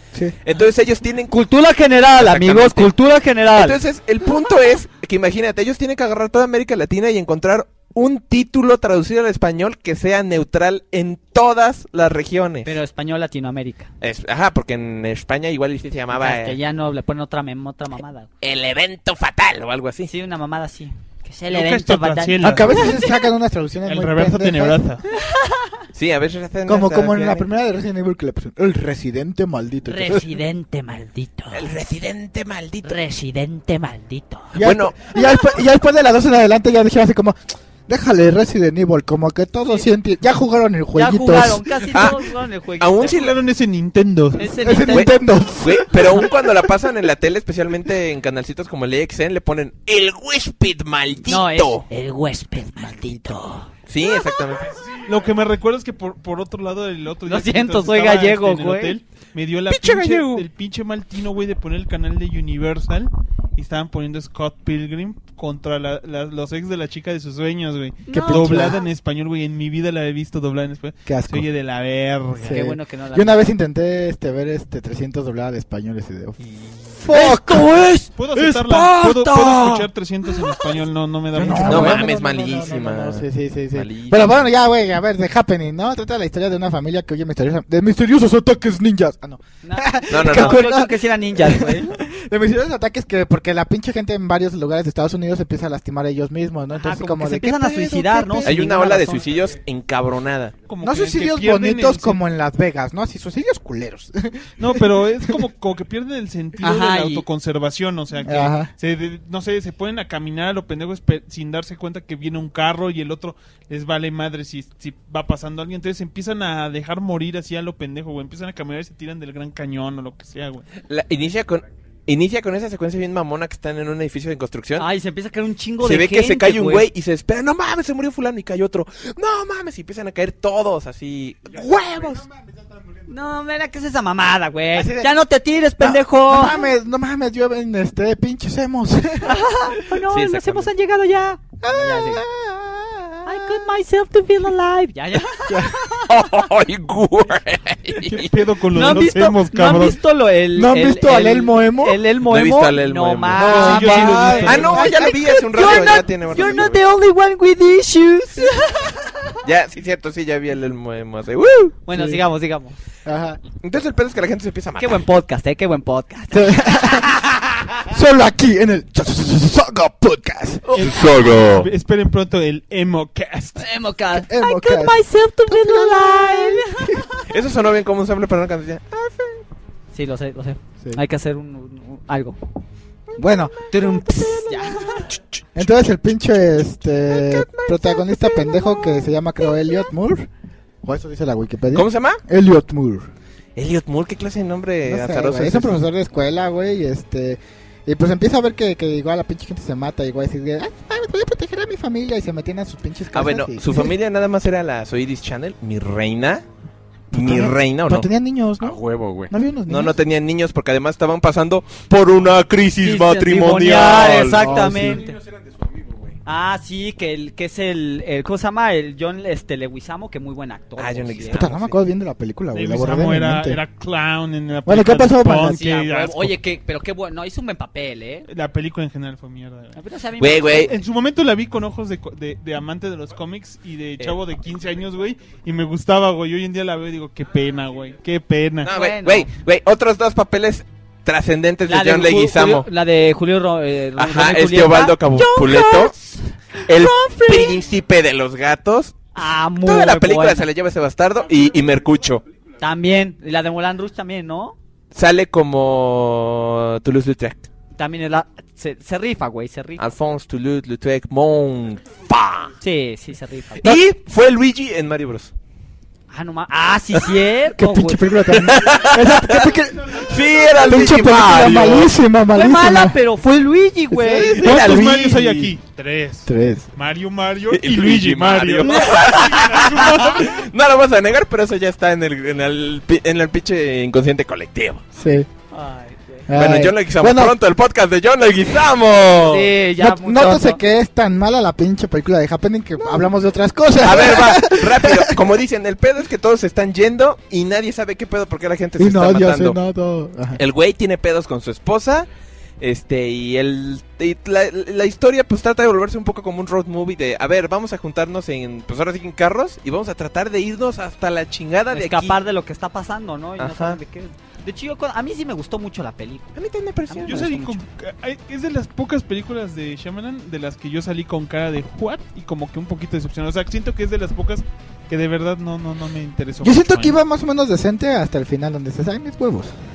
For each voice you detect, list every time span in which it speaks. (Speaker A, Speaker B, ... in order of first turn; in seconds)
Speaker A: 0.4-1.3, 2.2-2.9, 3.5-12.7, 14.0-16.6, 18.4-20.1, 25.9-27.4, 31.5-33.0, 34.6-35.0, 41.9-42.2, 42.8-43.4, 44.9-51.8, 53.9-54.8, 59.7-60.5, 81.6-84.4, 90.1-90.6, 98.4-100.5, 120.8-124.8, 125.8-132.3, 140.1-140.7, 146.1-148.3, 152.2-156.8, 159.4-161.8, 163.6-165.0, 171.1-171.4, 177.3-179.2, 185.1-185.7, 187.1-188.8, 191.7-192.2, 193.6-195.8, 203.1-206.4, 207.1-208.1, 209.7-214.4, 220.8-221.8, 230.2-230.7, 238.6-242.7, 244.0-245.9, 246.7-249.1, 249.6-252.2, 254.9-257.5, 259.8-262.5, 263.6-265.3, 268.3-271.9, 274.4-274.9, 277.5-284.8, 286.3-289.5, 293.8-299.6, 300.4-302.1, 302.6-312.1, 313.4-313.8, 316.4-317.2
Speaker B: 1.3-3.8, 12.6-13.9, 16.1-18.3, 20.1-23.2, 25.1-25.8, 29.9-31.7, 32.8-34.5, 40.9-43.2, 44.4-45.3, 51.2-53.7, 57.2-59.0, 68.1-68.8, 72.5-73.4, 77.0-78.1, 89.6-92.0, 96.7-99.3, 106.6-107.2, 124.8-126.8, 133.1-136.7, 139.2-142.2, 143.2-146.1, 148.7-159.2, 161.8-162.8, 164.8-167.4, 173.6-177.2, 179.9-182.4, 183.7-185.1, 212.8-215.2, 216.2-221.5, 225.4-228.3, 229.7-230.8, 238.6-239.3, 241.7-247.6, 249.1-250.4, 252.6-254.6, 257.8-259.8, 262.6-263.7, 266.1-268.2, 272.3-274.6, 278.7-279.2, 285.5-286.3, 289.3-290.6, 311.7-316.3, 316.9-317.6
Speaker C: 21.5-23.0, 23.8-25.0, 43.0-44.6, 55.0-72.6, 78.2-82.1, 100.7-102.2, 104.6-120.7, 148.0-150.0, 153.4-154.8, 170.7-173.6, 222.5-226.3, 228.3-229.8, 230.5-238.7, 274.4-280.4, 317.1-326.9
Speaker D: 22.4-24.9, 26.6-30.3, 34.5-41.7, 44.6-46.5, 52.8-53.4, 68.1-68.8, 71.0-71.5, 72.4-76.4, 77.0-78.0, 81.3-98.6, 100.8-105.4, 108.2-108.7, 134.7-135.1, 135.8-139.4, 141.6-143.7, 145.5-145.9, 150.5-152.0, 153.3-156.5, 161.9-162.2, 163.0-163.4, 166.3-167.2, 167.8-170.8, 174.1-177.1, 183.2-184.7, 185.5-190.3, 190.8-193.1, 194.8-203.9, 207.1-210.0, 214.4-215.1, 221.3-223.6, 224.7-225.7, 267.5-273.0, 273.9-275.5, 276.2-276.7, 284.9-285.3, 286.3-287.4, 289.8-295.2, 298.8-300.4, 326.4-329.6
Speaker E: 208.6-209.3, 214.5-216.2